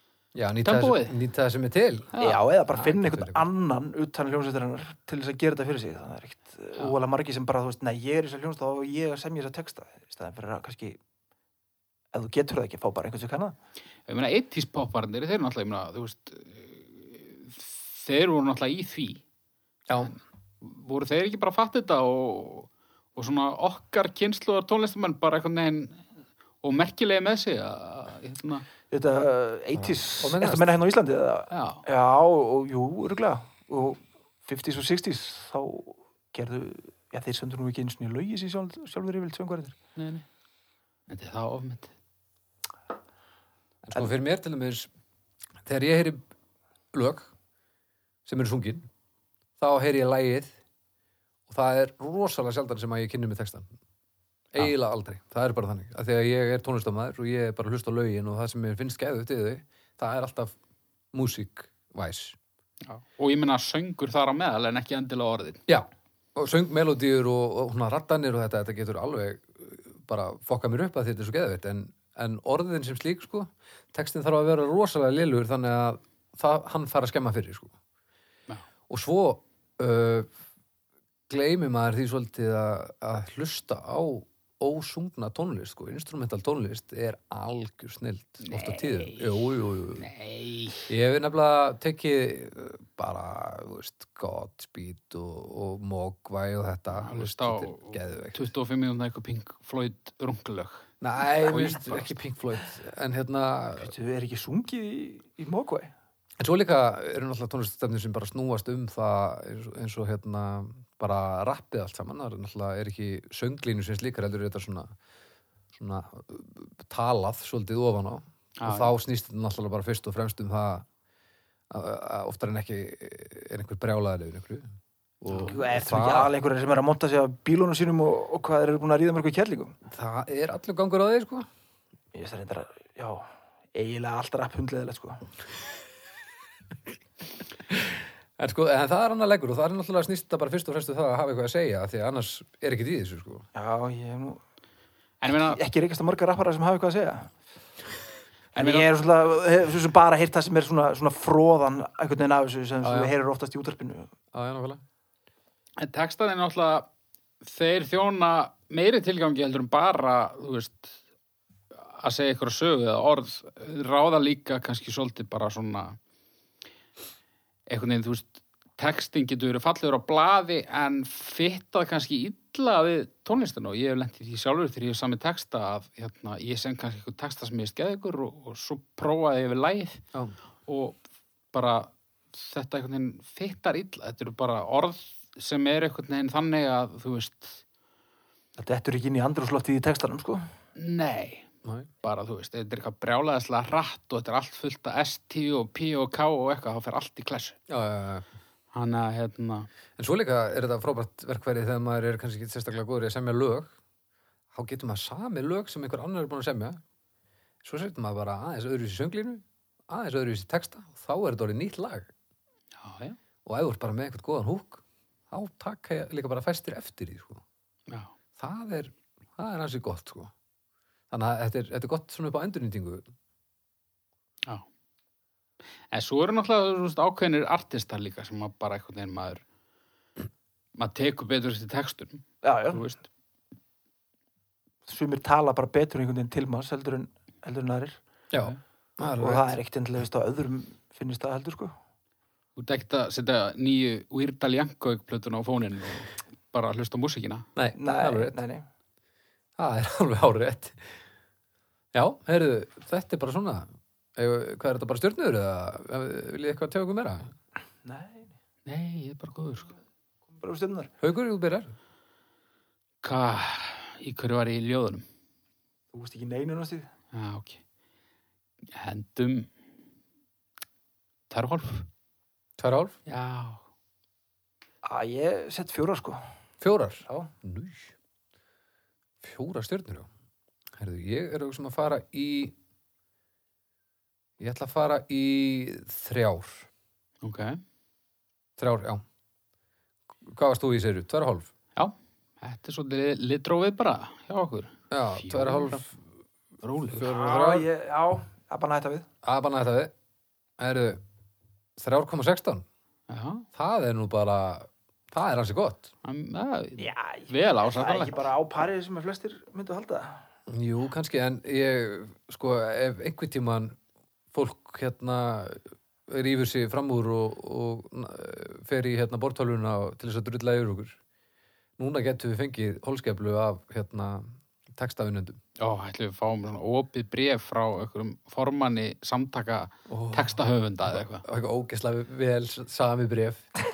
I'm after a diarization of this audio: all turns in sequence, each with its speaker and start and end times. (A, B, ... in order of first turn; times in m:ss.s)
0:00.3-0:02.1 A
0:00.6-0:01.2 B
0:02.1-0:02.4 B
0:02.2-0:11.0 C
0:02.7-0:03.4 A
0:12.1-0:13.5 C
0:14.1-0:19.2 B
0:19.9-0:20.1 A
0:20.6-0:26.1 B
0:26.6-0:28.6 B
0:28.9-0:39.8 C
0:29.8-0:30.7 A
0:31.5-0:31.8 B
0:40.0-0:40.2 B
0:41.1-0:41.9 B
0:43.8-0:44.9 A
0:45.6-0:46.2 A
0:46.9-0:47.3 A
0:48.2-0:48.9 A
0:49.6-0:50.5 A
0:51.5-0:53.7 A
0:54.5-1:00.5 A
1:01.1-1:02.4 A
1:02.8-1:05.6 B
1:05.7-1:17.7 A
1:18.9-1:20.3 A
1:21.3-1:30.1 A
1:28.4-1:29.4 B
1:30.0-1:30.9 B
1:30.9-1:38.4 A
1:37.0-1:40.8 B
1:41.0-1:43.9 A
1:41.4-1:42.1 B
1:43.8-1:45.9 C
1:46.4-1:54.9 A
1:55.8-2:00.8 A
1:58.6-1:58.9 B
2:01.7-2:06.3 A
2:05.3-2:05.6 B
2:05.5-2:09.8 C
2:09.9-2:11.5 A
2:12.1-2:15.2 C
2:17.7-2:23.5 A
2:23.5-2:24.4 C
2:25.2-2:25.6 B
2:25.3-2:27.3 C
2:28.5-2:34.1 C
2:28.6-2:28.8 B
2:32.8-2:33.1 A
2:34.3-2:34.8 A
2:35.8-2:36.9 B
2:37.4-2:41.0 B
2:41.7-2:46.0 B
2:47.7-3:00.0 B
3:00.6-3:01.0 B
3:01.5-3:07.6 B
3:08.6-3:10.5 C
3:10.8-3:11.5 B
3:11.6-3:11.9 A
3:12.0-3:17.6 B
3:17.7-3:18.2 A
3:18.7-3:19.7 B
3:20.0-3:23.7 A
3:24.5-3:26.8 A
3:27.6-3:32.1 A
3:32.8-3:33.2 B
3:33.4-3:37.4 A
3:37.9-3:38.1 B
3:38.4-3:40.3 A
3:41.1-3:43.1 A
3:45.9-3:49.4 B
3:50.8-3:53.0 B
3:52.4-3:52.8 C
3:54.9-3:58.0 C
3:58.3-3:59.6 A
3:59.2-4:01.7 C
4:02.6-4:07.5 B
4:07.6-4:08.4 A
4:07.8-4:08.6 C
4:09.6-4:11.0 A
4:11.9-4:17.3 A
4:17.8-4:18.3 C
4:18.6-4:19.7 B
4:20.3-4:20.9 C
4:21.0-4:21.7 A
4:23.0-4:25.0 B
4:25.9-4:26.9 C
4:27.1-4:27.6 B
4:28.7-4:29.5 B
4:31.3-4:31.9 B
4:32.6-4:32.9 A
4:33.0-4:33.6 B
4:34.8-4:36.3 C
4:36.6-4:37.9 A
4:39.2-4:40.1 A
4:40.8-4:42.5 A
4:44.4-4:46.7 A
4:47.2-4:47.6 B
4:48.6-4:49.0 A
4:50.2-4:51.5 A
4:51.8-4:55.8 B
4:54.9-4:55.9 A
4:56.6-4:57.1 B
4:56.9-4:57.7 A
4:57.0-4:59.1 C
4:59.2-4:59.9 A
5:00.6-5:01.0 A
5:01.8-5:02.6 A
5:03.1-5:03.4 B
5:03.5-5:05.9 A
5:06.0-5:08.2 B
5:06.8-5:10.2 C
5:10.5-5:13.8 A
5:14.3-5:21.0 A
5:21.8-5:25.4 A
5:25.6-5:31.2 B
5:29.9-5:30.4 A
5:30.9-5:33.5 A